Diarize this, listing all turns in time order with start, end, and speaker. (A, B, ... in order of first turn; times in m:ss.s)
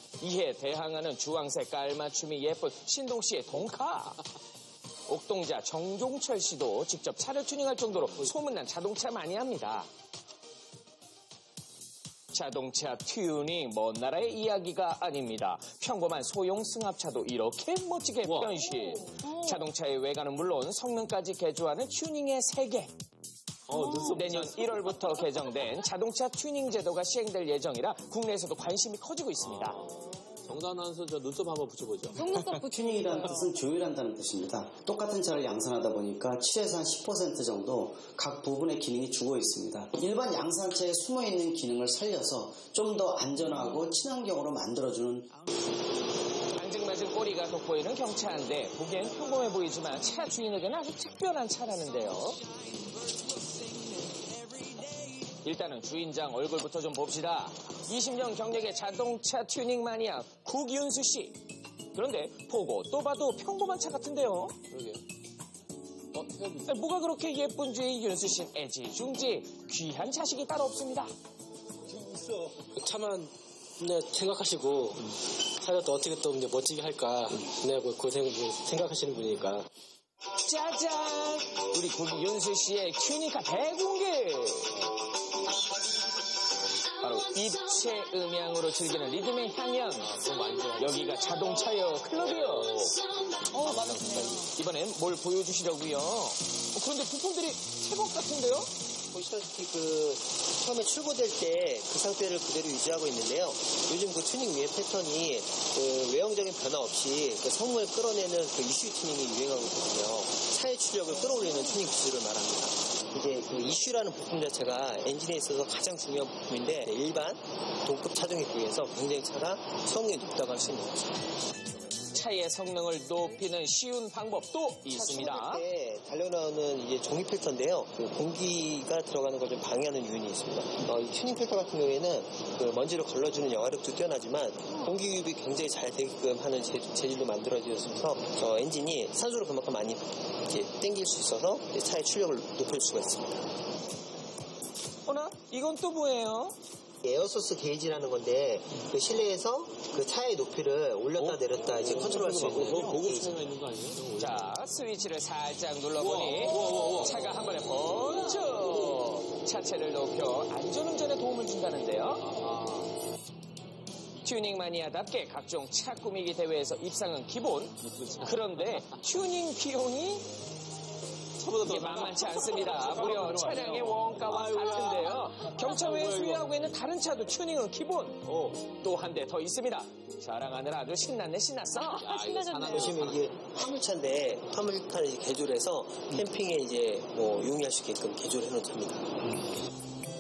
0:00.2-0:04.2 A
0:05.1-0:09.9 A
0:12.3-0:22.9 A
0:18.2-0:18.6 B
0:19.1-0:19.6 C
0:23.7-0:25.1 B
0:23.7-0:24.2 C
0:23.8-0:29.8 A
0:29.4-0:29.8 B
0:30.4-0:32.3 B
0:32.1-0:33.6 C
0:32.5-0:45.4 D
0:46.6-0:52.5 A
0:52.8-0:54.2 C
0:55.4-1:01.4 A
1:01.9-1:04.6 A
1:04.7-1:05.0 B
1:06.1-1:06.7 B
1:06.6-1:11.1 A
1:11.9-1:12.6 B
1:12.8-1:19.7 E
1:20.4-1:24.8 A
1:27.0-1:30.2 A
1:30.1-1:31.4 B
1:30.8-1:32.9 A
1:32.4-1:34.5 B
1:33.5-1:34.5 C
1:34.5-1:38.7 A
1:39.1-2:01.3 F
2:02.1-2:05.6 A
2:04.9-2:23.5 F
2:25.1-2:26.6 A
2:27.0-2:33.6 F
2:31.2-2:34.5 B
2:34.2-2:42.4 A
2:36.0-2:37.2 B
2:42.3-2:42.9 B
2:44.2-2:50.3 A
2:47.8-2:48.9 B
2:51.4-2:55.2 B
2:51.6-3:02.2 A
2:55.8-2:56.4 B
2:58.3-2:58.6 B
3:01.9-3:03.3 B
3:02.0-3:03.0 C
3:02.7-3:09.1 F